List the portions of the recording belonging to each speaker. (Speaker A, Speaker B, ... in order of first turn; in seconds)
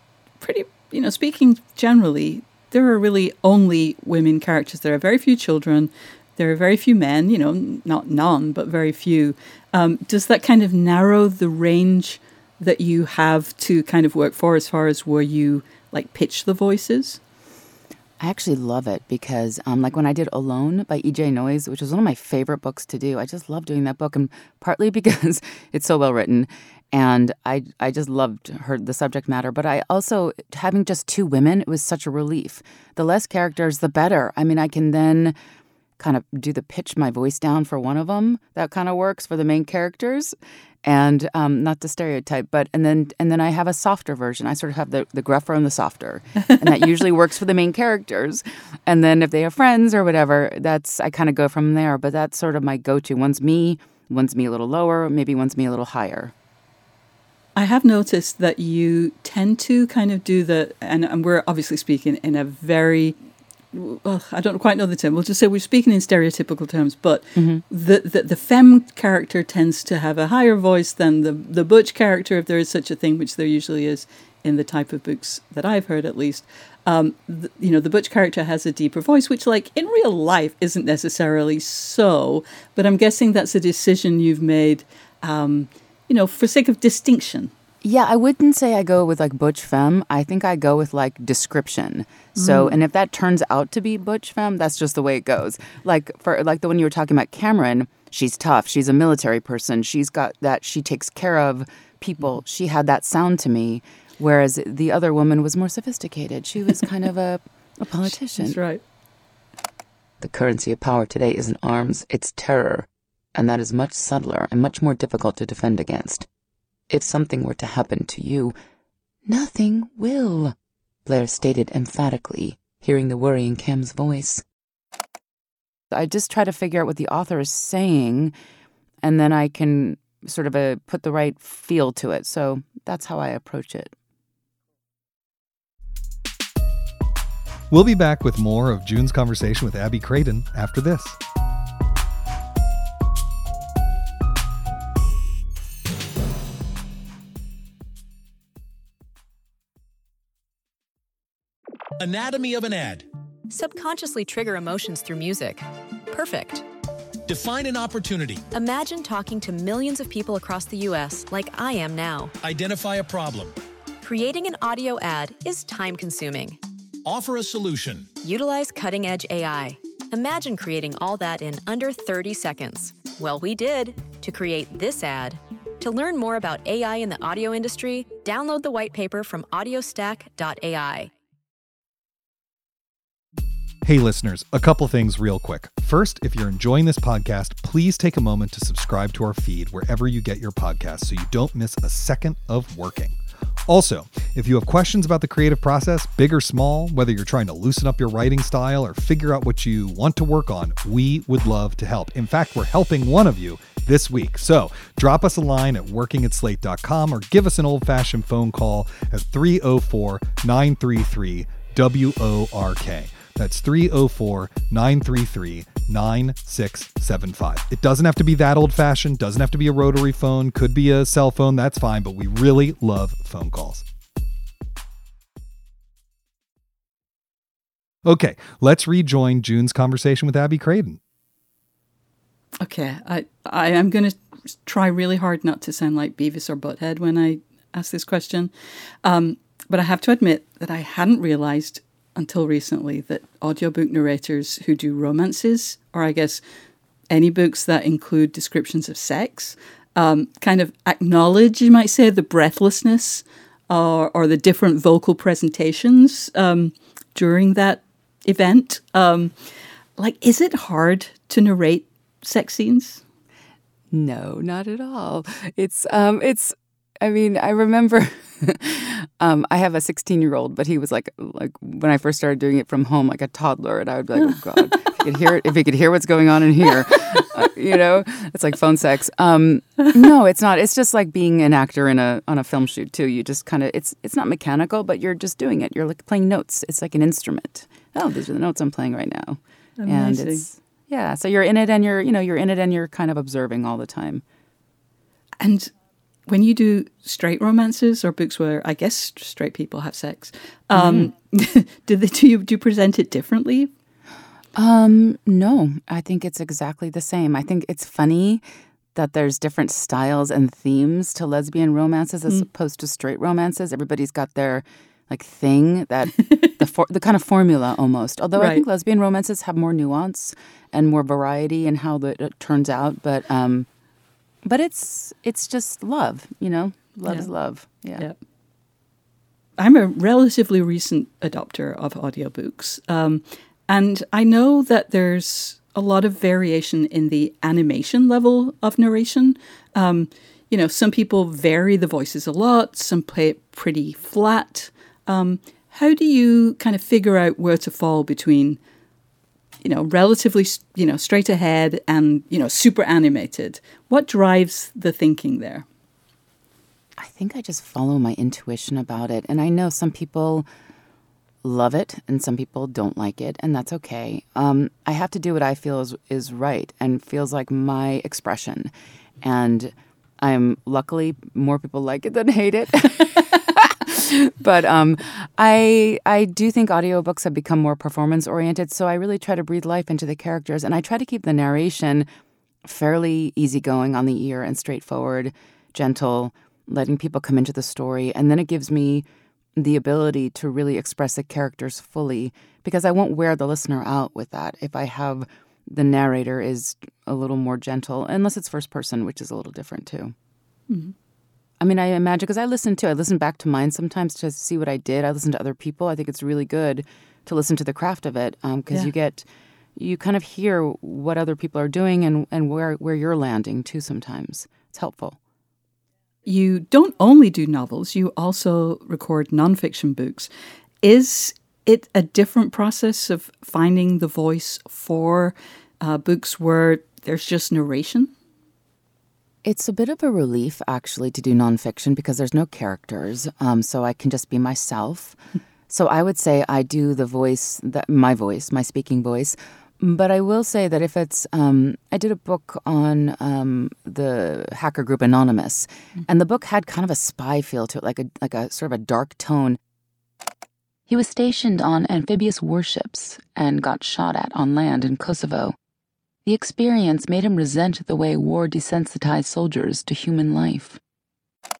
Speaker A: 0.4-17.2, 57.5-63.1, 63.7-87.5, 92.3-92.8, 108.4-108.8, 232.6-238.5, 239.0-246.4, 247.1-259.3, 260.0-263.0, 289.8-290.4, 295.4-295.7, 296.3-303.7, 316.2-316.5, 318.4-318.6, 329.6-348.6, 349.6-355.6, 400.7-400.9, 416.2-420.3, 420.8-428.1
Speaker B: 18.2-35.4, 36.0-56.3, 67.3-67.6, 87.8-108.6, 110.2-116.3, 116.9-118.5, 119.2-120.5, 121.0-124.4, 125.9-128.3, 129.0-133.9, 263.9-294.2, 300.7-301.1, 304.5-308.4, 308.9-323.7, 324.4-328.1, 357.0-360.4, 361.4-368.7, 369.2-382.1, 382.6-400.1, 401.6-415.2, 429.4-435.2, 435.7-449.6, 450.9-455.6, 456.2-460.8
Speaker C: 137.7-141.2, 183.8-193.2, 193.7-223.8, 228.0-231.0
Speaker D: 152.0-153.1, 157.2-158.4, 162.4-163.5, 167.0-168.1
Speaker E: 153.5-156.7, 158.5-162.3, 164.0-166.6, 168.2-181.1